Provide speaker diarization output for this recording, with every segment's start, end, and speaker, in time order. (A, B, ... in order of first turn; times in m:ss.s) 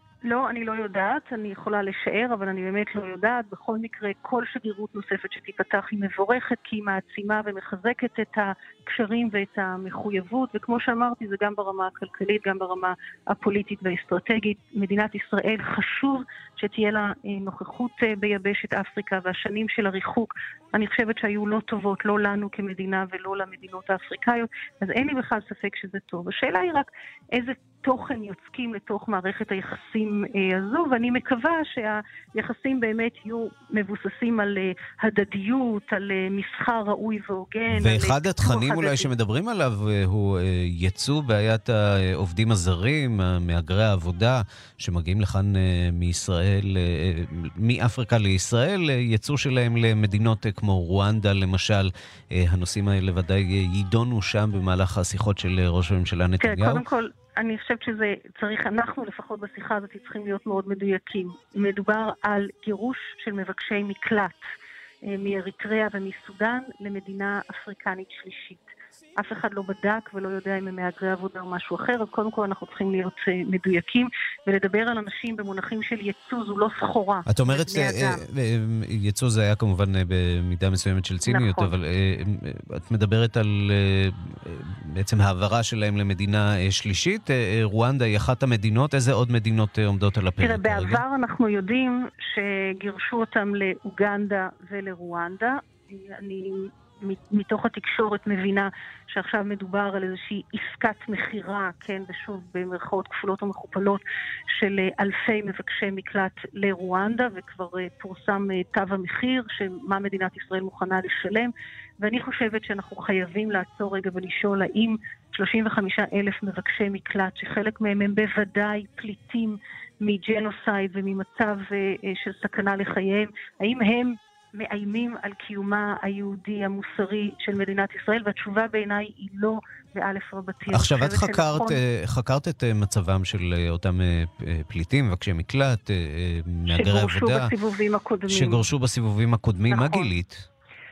0:00.2-0:39.1 A
0:37.7-0:56.8 B
0:56.4-1:04.4 A
1:05.1-1:08.6 A
1:09.2-1:18.2 A
1:17.3-1:31.0 B
1:21.2-1:21.7 A
1:30.4-1:44.0 A
1:44.5-2:11.8 A
2:10.7-2:17.5 B
2:16.7-2:18.6 A
2:18.3-2:20.5 B
2:19.7-2:20.1 A